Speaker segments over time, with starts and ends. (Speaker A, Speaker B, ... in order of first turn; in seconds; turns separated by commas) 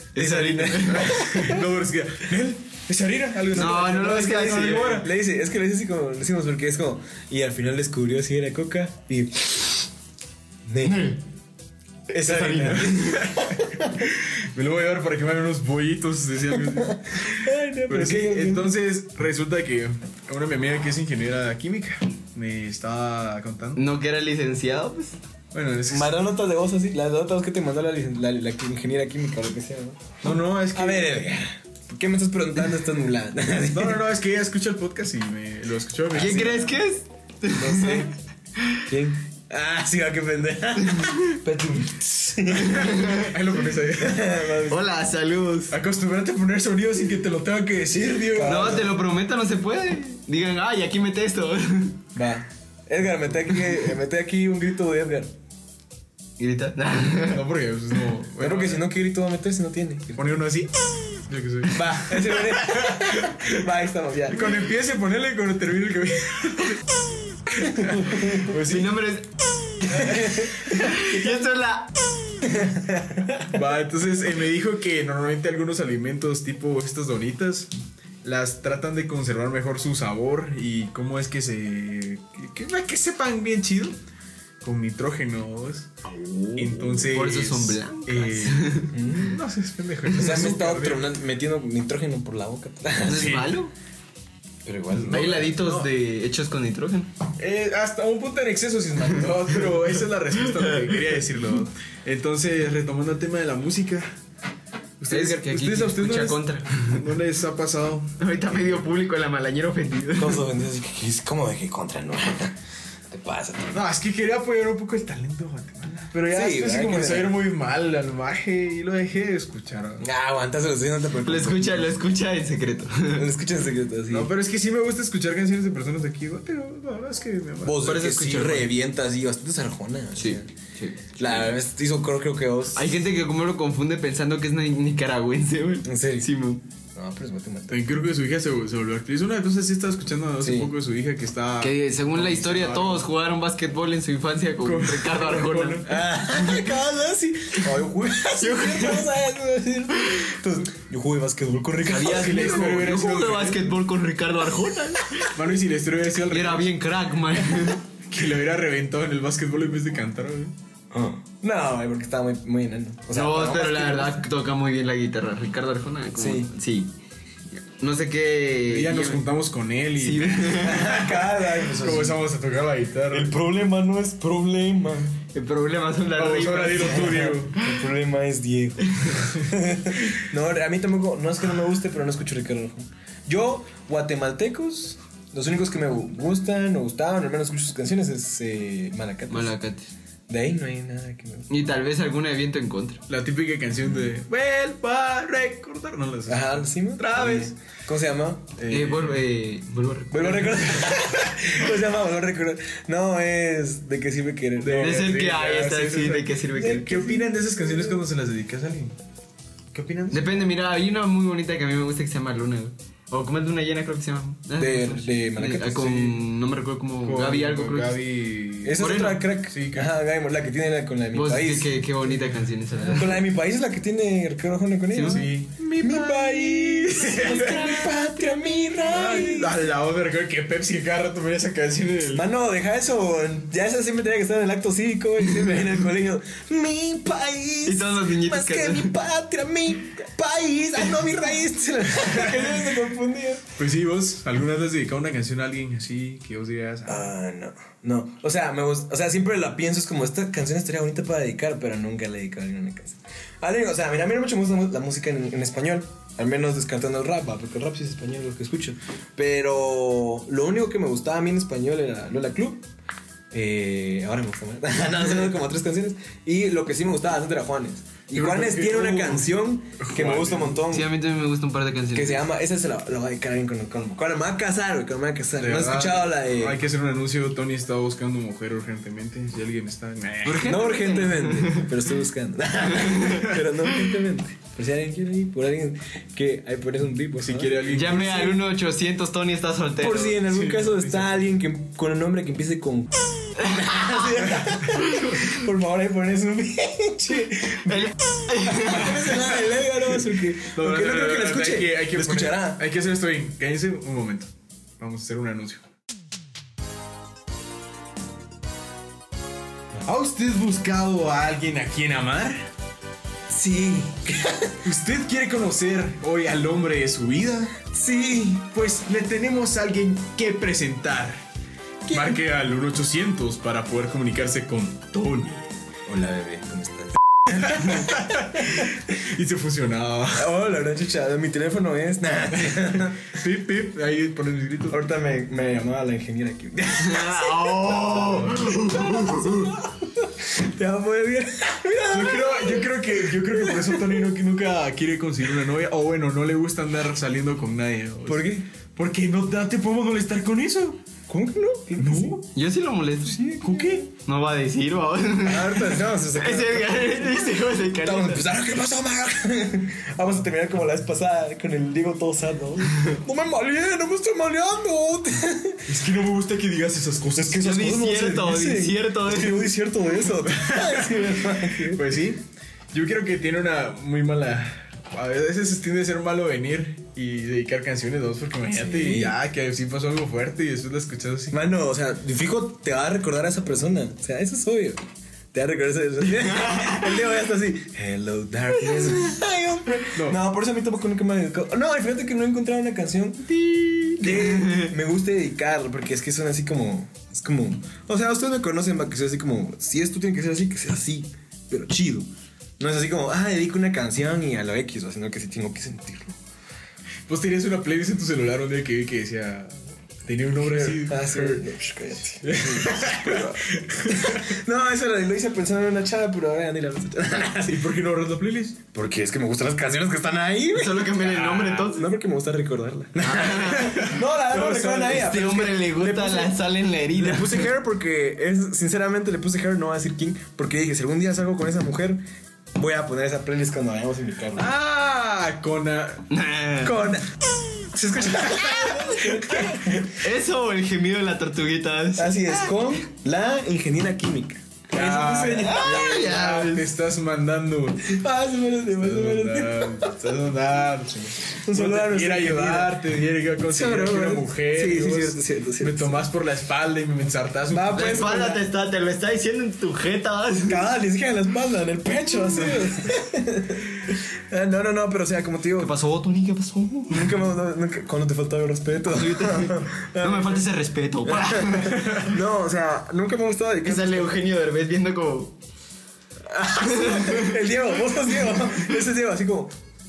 Speaker A: 0.1-1.2, Speaker B: 0.1-1.6, Speaker C: 0.9-5.1, Speaker A: 3.5-5.0, Speaker B: 3.5-9.9, Speaker B: 10.7-11.2, Speaker B: 12.1-14.0, Speaker C: 12.1-23.8, Speaker B: 16.8-18.7, Speaker A: 23.8-25.2, Speaker C: 25.5-26.2, Speaker B: 25.9-30.1, Speaker C: 30.2-31.2, Speaker B: 30.7-34.0, Speaker C: 33.7-36.8, Speaker A: 36.1-38.8, Speaker B: 37.5-38.1, Speaker B: 38.8-43.2, Speaker A: 40.8-41.1, Speaker A: 42.5-43.3, Speaker C: 42.6-44.5, Speaker B: 44.0-44.8, Speaker A: 44.7-45.8, Speaker C: 45.7-48.9, Speaker B: 48.3-48.9, Speaker A: 48.4-52.0, Speaker B: 52.1-55.3, Speaker A: 56.4-57.4, Speaker C: 57.2-58.8, Speaker B: 58.4-60.4, Speaker C: 60.2-63.0, Speaker B: 61.7-64.6, Speaker C: 64.3-66.8, Speaker C: 67.5-69.0, Speaker B: 67.6-68.5, Speaker A: 68.5-71.9, Speaker B: 69.9-71.0, Speaker B: 72.5-73.5, Speaker C: 73.5-77.7, Speaker C: 78.2-84.0, Speaker C: 84.6-91.1, Speaker A: 86.5-88.9, Speaker B: 88.9-89.4, Speaker B: 90.1-93.4, Speaker A: 93.0-93.7, Speaker C: 93.0-93.6, Speaker B: 94.6-95.5, Speaker C: 94.9-95.9, Speaker A: 95.1-97.1, Speaker C: 97.4-104.1, Speaker A: 100.4-101.0, Speaker C: 105.0-108.9, Speaker A: 105.1-107.0, Speaker A: 108.2-110.5, Speaker B: 110.2-112.6, Speaker B: 113.1-113.8, Speaker C: 113.7-120.0, Speaker B: 116.3-117.4, Speaker B: 120.0-122.0, Speaker A: 121.2-123.3, Speaker B: 123.1-124.3, Speaker C: 124.1-127.8, Speaker B: 127.6-130.5, Speaker A: 127.8-128.7, Speaker A: 130.2-131.5, Speaker B: 131.2-133.0, Speaker A: 132.7-136.6, Speaker B: 135.8-136.3, Speaker B: 136.9-137.9, Speaker C: 137.7-143.1, Speaker B: 140.4-140.7, Speaker A: 141.6-146.6, Speaker C: 144.6-146.0, Speaker B: 145.8-152.9, Speaker A: 148.4-149.1, Speaker A: 151.8-155.3, Speaker C: 151.9-153.7, Speaker C: 155.3-156.7, Speaker A: 156.3-157.8, Speaker C: 158.1-160.5, Speaker B: 160.9-164.2, Speaker A: 163.1-166.9, Speaker B: 166.2-166.5, Speaker A: 167.8-169.2, Speaker C: 168.7-173.4, Speaker A: 170.0-170.9, Speaker B: 170.6-172.2, Speaker B: 173.1-175.2, Speaker A: 175.3-177.4, Speaker C: 176.2-177.5, Speaker B: 176.8-189.5, Speaker A: 179.0-179.2, Speaker A: 189.3-189.9, Speaker B: 190.3-191.5, Speaker A: 191.5-193.0, Speaker C: 193.1-197.5, Speaker B: 196.3-198.6, Speaker A: 197.0-197.5, Speaker C: 198.6-199.2, Speaker A: 198.7-201.0, Speaker B: 200.1-205.1, Speaker C: 204.6-208.9, Speaker A: 204.8-206.9, Speaker B: 206.6-208.0, Speaker C: 209.7-210.3, Speaker A: 210.1-218.0, Speaker B: 214.6-216.1, Speaker C: 217.0-219.9, Speaker B: 218.6-221.8, Speaker A: 218.8-219.2, Speaker A: 221.1-223.2, Speaker B: 222.9-229.6, Speaker A: 224.9-228.6, Speaker C: 225.0-225.7, Speaker C: 226.7-227.8, Speaker C: 228.8-232.2, Speaker B: 232.1-243.5, Speaker A: 237.6-238.9, Speaker C: 242.0-242.5, Speaker C: 243.6-247.1, Speaker B: 246.8-262.6, Speaker B: 263.3-270.9, Speaker C: 268.1-270.6, Speaker A: 270.7-272.2, Speaker B: 271.9-276.6, Speaker C: 275.4-280.6, Speaker A: 280.2-281.7, Speaker B: 280.4-287.6, Speaker A: 282.8-283.3, Speaker C: 287.2-288.4, Speaker A: 287.7-290.2, Speaker B: 289.8-302.6, Speaker C: 290.2-291.2, Speaker A: 297.6-299.0, Speaker C: 300.5-305.6, Speaker C: 309.8-312.5, Speaker B: 313.3-314.6, Speaker C: 314.6-317.5, Speaker B: 317.7-318.5, Speaker C: 318.5-321.2, Speaker B: 321.8-322.2, Speaker C: 321.9-325.4, Speaker B: 325.9-327.8, Speaker C: 327.4-330.3, Speaker B: 330.1-333.1, Speaker C: 333.1-334.8, Speaker B: 334.7-344.1, Speaker A: 336.8-339.5, Speaker C: 337.9-338.6, Speaker C: 341.9-350.8, Speaker B: 348.1-348.4, Speaker B: 351.1-352.2, Speaker C: 351.8-352.2, Speaker A: 352.3-353.2, Speaker B: 353.0-353.8, Speaker C: 353.4-353.9, Speaker A: 353.9-358.2, Speaker B: 355.2-365.7, Speaker C: 365.7-367.4, Speaker B: 367.1-371.8, Speaker A: 367.4-369.5, Speaker C: 370.2-381.4, Speaker B: 378.4-379.1, Speaker B: 381.3-384.8, Speaker B: 385.3-393.4, Speaker C: 389.9-390.2, Speaker A: 393.3-394.7, Speaker B: 394.0-406.2, Speaker C: 407.1-409.5, Speaker C: 410.0-411.5, Speaker B: 410.4-417.7, Speaker C: 412.2-414.4, Speaker C: 417.4-418.6, Speaker B: 418.7-426.4, Speaker A: 420.5-421.9, Speaker C: 421.0-421.7, Speaker A: 423.0-423.9, Speaker C: 423.6-425.0, Speaker A: 424.7-427.5, Speaker B: 426.9-432.0, Speaker B: 432.5-434.5, Speaker C: 434.4-436.1, Speaker A: 436.1-436.8, Speaker B: 436.6-437.1, Speaker B: 437.7-440.0, Speaker C: 438.1-439.6, Speaker A: 439.9-442.7, Speaker B: 441.9-446.0, Speaker C: 444.7-448.0, Speaker A: 445.4-446.7, Speaker B: 447.9-449.9, Speaker C: 448.8-458.2, Speaker B: 451.4-452.8, Speaker B: 453.4-456.0, Speaker B: 457.5-458.4, Speaker A: 457.7-460.6, Speaker B: 460.5-465.8, Speaker A: 465.6-467.2, Speaker B: 466.9-470.4, Speaker A: 468.8-472.0, Speaker B: 471.0-474.2, Speaker C: 471.7-472.1, Speaker A: 473.6-475.3, Speaker B: 476.2-479.6, Speaker A: 476.6-477.4